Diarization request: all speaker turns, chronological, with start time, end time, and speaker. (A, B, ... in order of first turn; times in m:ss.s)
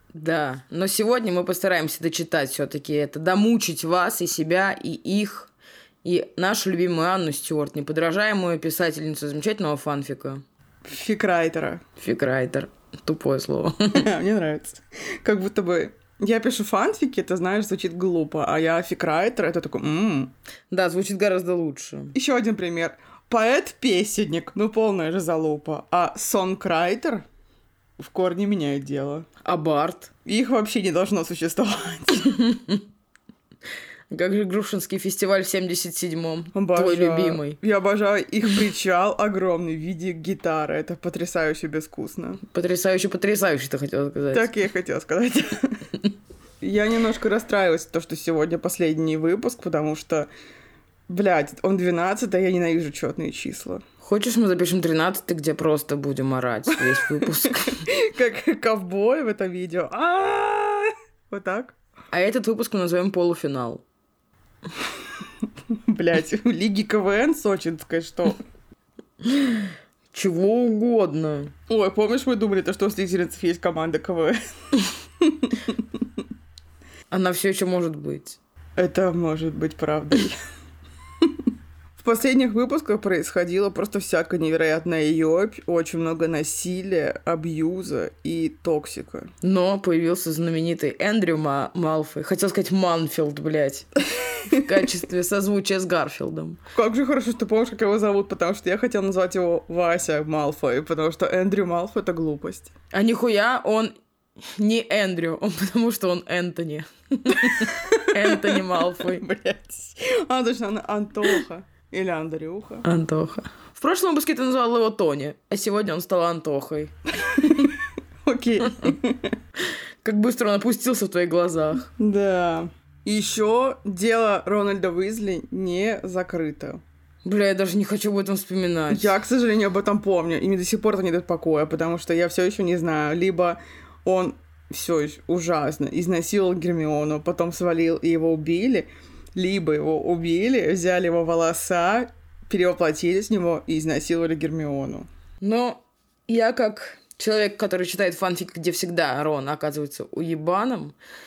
0:00.1-0:05.5 A
0:06.0-0:10.4 A
0:10.8-0:11.8 B
0:12.0-0:14.1 A
0:14.0-0:20.3 B
0:20.7-0:22.1 A
0:22.1-0:27.2 B
0:28.0-0:29.3 B
0:29.4-0:30.1 A
0:30.3-0:32.4 B
0:32.2-0:32.8 A
0:34.1-0:37.6 A
0:36.5-0:42.4 B
0:42.5-0:44.5 A
0:44.3-0:45.8 B
0:46.6-0:50.3 B
0:51.1-0:53.8 B
0:54.0-0:57.8 A
0:56.7-1:01.8 B
1:02.1-1:03.8 A
1:05.9-1:08.4 B
1:09.2-1:11.5 A
1:11.7-1:15.8 B
1:17.1-1:18.4 A
1:18.8-1:20.4 B
1:22.0-1:29.3 B
1:29.4-1:33.9 A
1:34.3-1:34.7 B
1:34.5-1:36.6 A
1:36.7-1:42.7 B
1:42.9-1:49.2 A
1:47.3-1:52.8 B
1:52.8-1:56.9 A
1:57.2-1:59.3 B
1:59.6-2:01.9 A
2:02.0-2:06.8 B
2:07.2-2:09.1 A
2:08.9-2:25.1 B
2:25.4-2:31.0 A